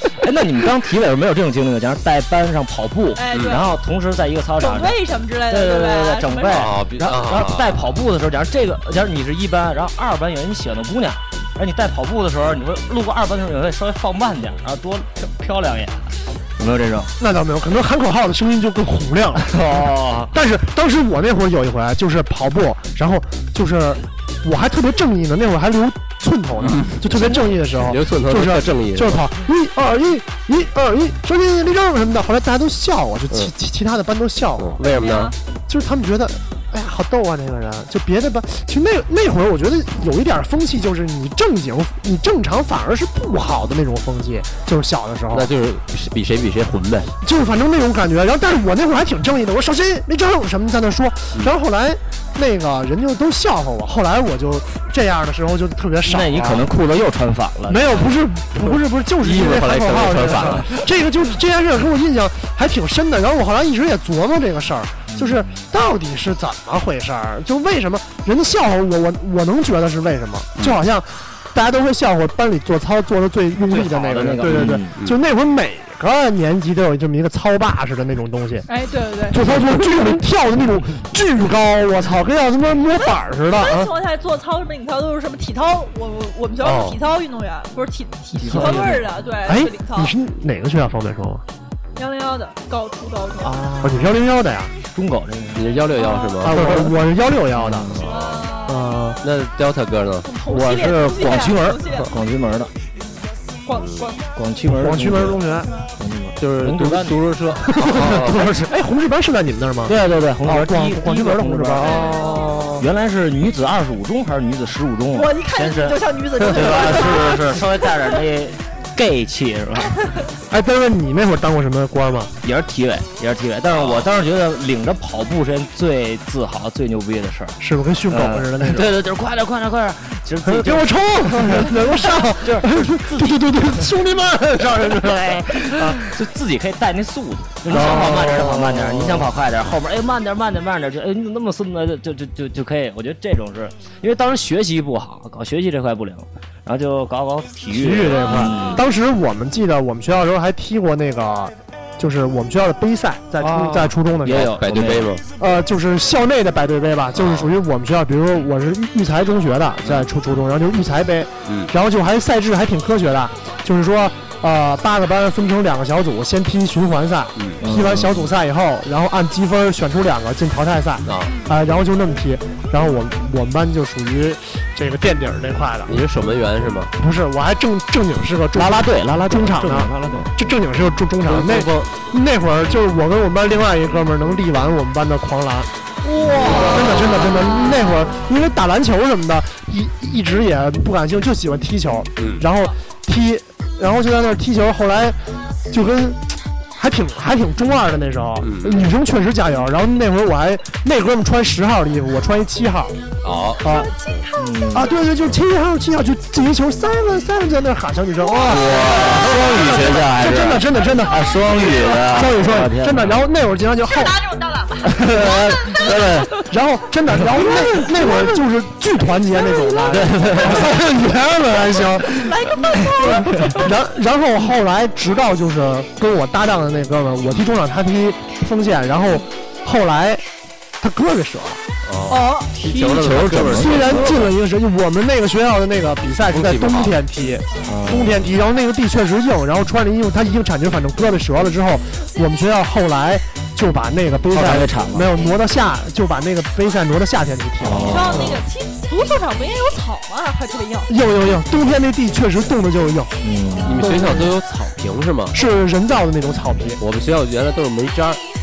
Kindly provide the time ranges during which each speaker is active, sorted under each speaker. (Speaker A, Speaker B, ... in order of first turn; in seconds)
Speaker A: 0.2-17.1, 19.5-20.3, 56.1-58.2, 65.1-65.6, 73.7-75.0, 88.4-89.2, 93.4-94.2, 95.0-95.8, 97.5-98.0, 100.5-102.7, 104.3-105.4, 106.0-107.2, 108.1-108.7, 109.9-120.0, 122.4-133.9, 135.0-148.8, 153.4-155.2, 167.6-168.3, 178.6-180.3, 204.4-204.9, 208.5-213.2, 214.8-216.4, 217.2-218.0, 219.9-220.7, 223.1-223.6, 232.6-234.2, 237.7-238.2, 244.3-245.1, 247.6-248.4, 253.2-253.9
Speaker B: 3.2-3.7, 4.6-6.7, 34.8-35.4, 78.7-79.4, 83.0-90.2, 92.0-93.6, 96.0-96.5, 98.1-99.1, 100.2-102.1, 103.7-104.2, 111.8-112.7, 115.1-117.7, 148.1-148.8, 171.3-171.5, 186.0-187.7, 203.6-204.8, 208.3-209.0, 211.4-211.9, 213.9-216.2, 219.5-220.4, 222.1-223.7, 232.1-232.5, 247.8-250.9
Speaker C: 3.3-3.6, 6.5-7.8, 26.6-29.2, 34.6-35.3, 45.3-47.1, 59.2-60.7, 74.5-75.2, 95.5-96.8, 98.0-98.5, 99.2-100.3, 103.7-104.1, 106.4-108.5, 123.7-124.1, 154.5-155.2, 157.2-157.5, 161.5-161.7, 171.1-171.3, 175.9-176.9, 181.3-181.9, 186.2-186.8, 192.2-192.4, 198.4-198.9, 203.2-204.2, 231.8-234.3, 236.3-237.0, 253.7-255.4, 256.8-258.2
Speaker D: 17.2-19.6, 20.3-34.8, 35.7-45.5, 47.2-56.7, 57.7-78.7, 79.3-83.9, 86.6-87.0, 89.5-91.4, 93.8-94.7, 96.4-98.0, 98.7-99.2, 104.7-105.7, 107.7-112.8, 120.5-122.3, 127.6-129.0, 130.4-136.1, 137.7-139.3, 147.7-154.6, 155.4-176.0, 177.0-185.7, 186.4-195.2, 195.7-196.2, 196.8-203.0, 203.6-203.9, 204.7-211.3, 211.9-214.2, 216.3-230.2, 230.8-231.6, 233.5-248.4, 250.9-254.3, 255.3-256.8